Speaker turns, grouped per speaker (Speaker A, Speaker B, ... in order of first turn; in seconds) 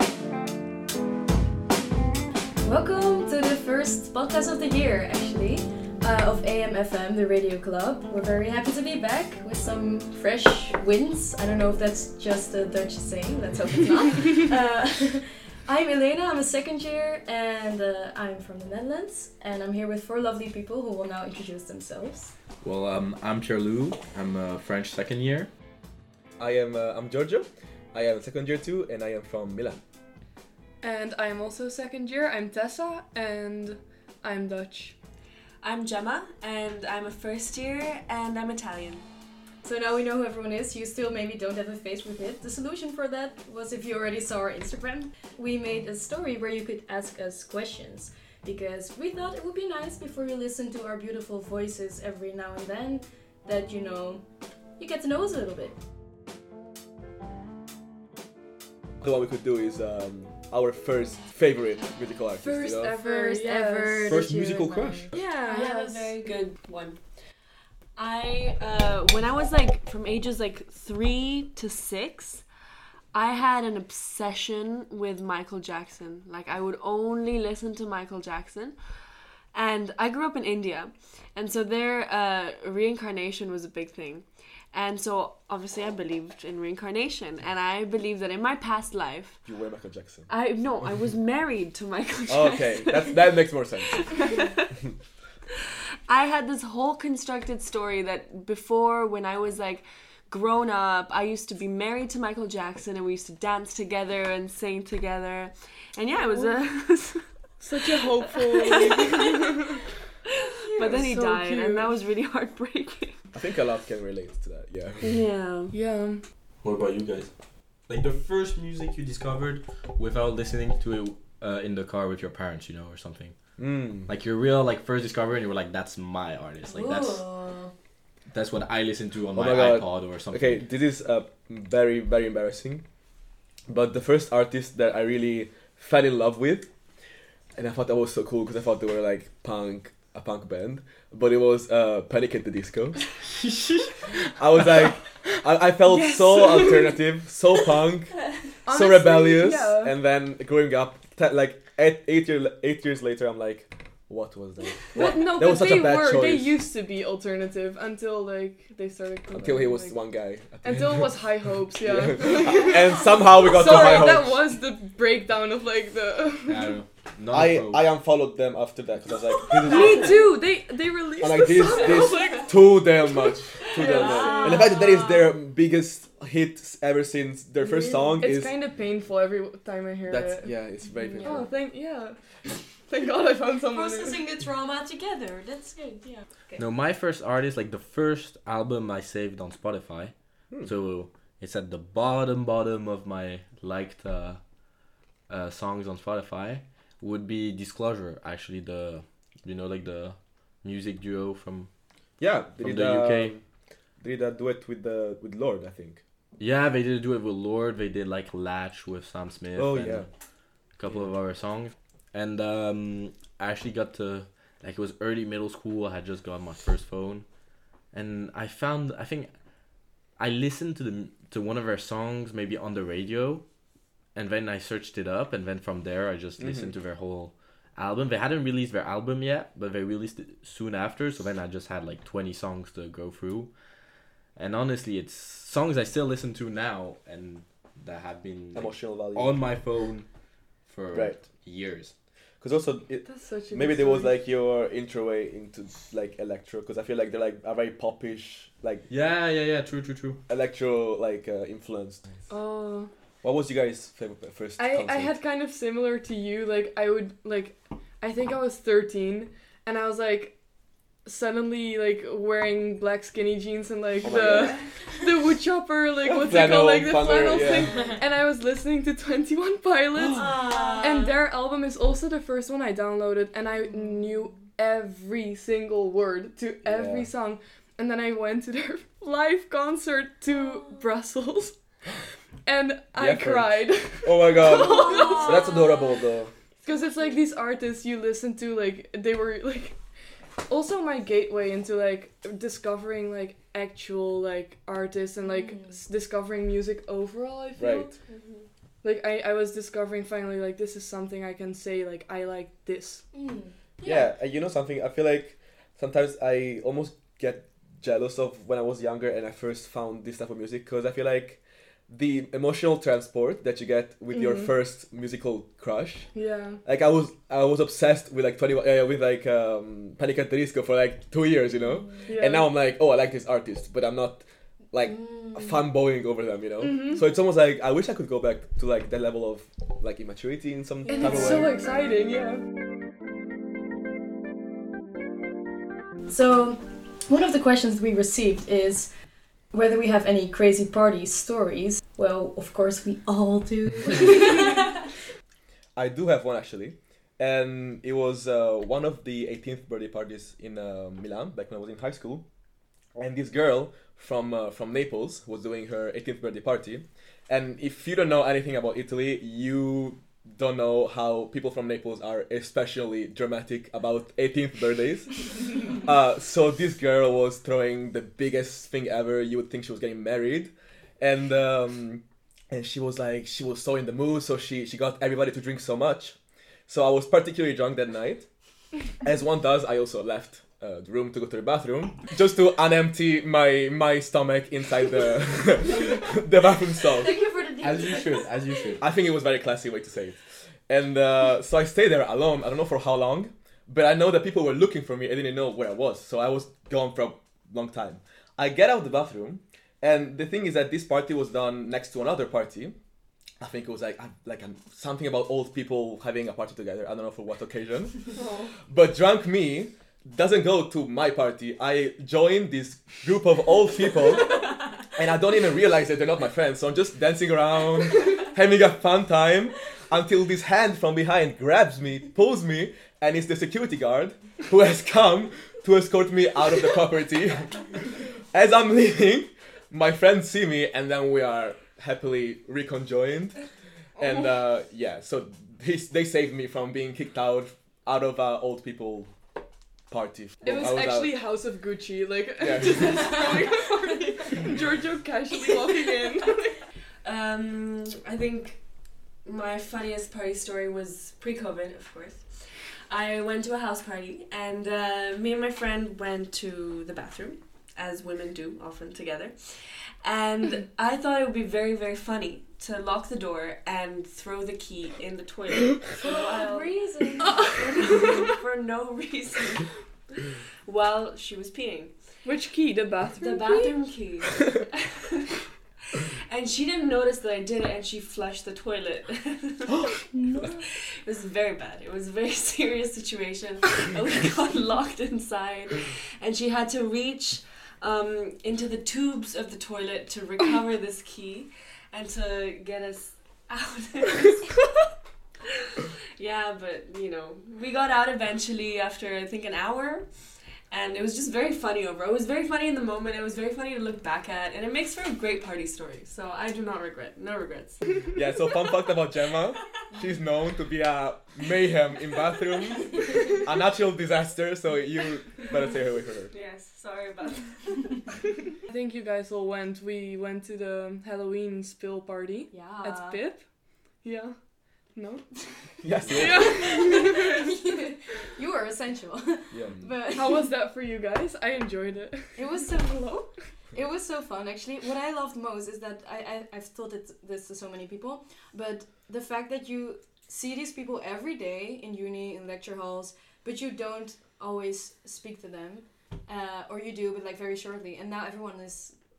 Speaker A: 2.6-22.3, 39.6-54.2, 54.8-55.8, 62.9-65.1, 126.7-127.7, 173.9-175.1, 183.7-186.6, 267.5-268.0, 270.4-271.0, 284.4-285.9, 295.3-295.8, 303.1-304.0, 336.1-338.9, 339.5-344.7, 387.0-388.3, 466.0-467.5, 522.5-523.2, 526.2-530.5, 532.4-549.0
Speaker B: 22.6-25.5, 64.1-65.2, 116.6-117.3, 117.9-123.4, 124.1-127.2, 128.3-130.6, 166.5-167.9, 186.6-190.1, 190.6-194.4, 195.3-201.7, 202.6-203.3, 206.4-210.1, 210.8-217.3, 217.9-219.3, 220.2-223.4, 224.2-233.5, 234.4-240.1, 240.7-241.9, 248.9-250.2, 387.6-388.9
Speaker C: 26.4-29.8, 59.0-63.0, 89.5-90.3, 92.3-94.1, 113.3-115.2, 123.6-124.1, 129.3-132.8, 133.7-136.7, 137.6-143.1, 144.3-156.6, 159.3-164.5, 167.3-170.3, 171.2-178.5, 180.1-181.5, 202.2-203.4, 204.0-206.0, 209.6-210.1, 226.4-226.7, 238.5-239.5, 240.9-241.2, 242.4-248.9, 250.3-252.1, 253.2-255.1, 264.0-264.6, 266.0-268.0, 276.6-277.1, 283.0-286.3, 297.6-297.9, 303.8-316.1, 316.6-331.5, 345.8-352.2, 353.0-376.2, 376.7-378.3, 379.0-387.3, 388.8-402.8, 403.4-408.1, 408.7-433.4, 434.0-439.1, 439.9-441.2, 442.4-443.2, 508.1-516.3, 525.8-526.8, 529.5-529.9
Speaker D: 30.8-35.0, 62.4-64.2, 65.1-66.2, 106.2-106.6, 107.6-109.8, 110.6-111.9, 115.7-116.2, 145.8-147.0, 148.7-150.0, 154.9-160.0, 160.6-166.8, 169.4-174.7, 177.6-180.6, 181.2-184.3, 243.1-244.2, 252.3-252.9, 254.6-260.4, 261.1-281.6, 282.4-285.7, 286.6-289.8, 290.5-297.9, 298.8-303.1, 314.1-314.5, 316.1-316.6, 322.1-322.5, 326.6-327.0, 330.9-332.4, 408.1-408.6, 434.0-434.3, 440.4-446.6, 467.2-468.3, 472.2-473.8, 480.1-480.6, 518.7-523.4, 524.0-524.4, 525.0-525.3, 526.1-527.5, 530.1-532.5
Speaker E: 35.6-39.0, 65.2-67.0, 68.0-72.5, 73.1-78.8, 79.5-89.4, 90.3-93.2, 93.9-94.8, 96.1-109.7, 110.3-113.2, 115.0-115.7, 264.3-264.6, 270.0-271.2, 298.1-298.5, 447.0-448.6, 449.2-452.3, 452.9-459.4, 460.0-471.9, 473.2-475.4, 475.9-479.9, 480.6-494.6, 496.2-500.1, 500.7-507.9, 516.3-518.0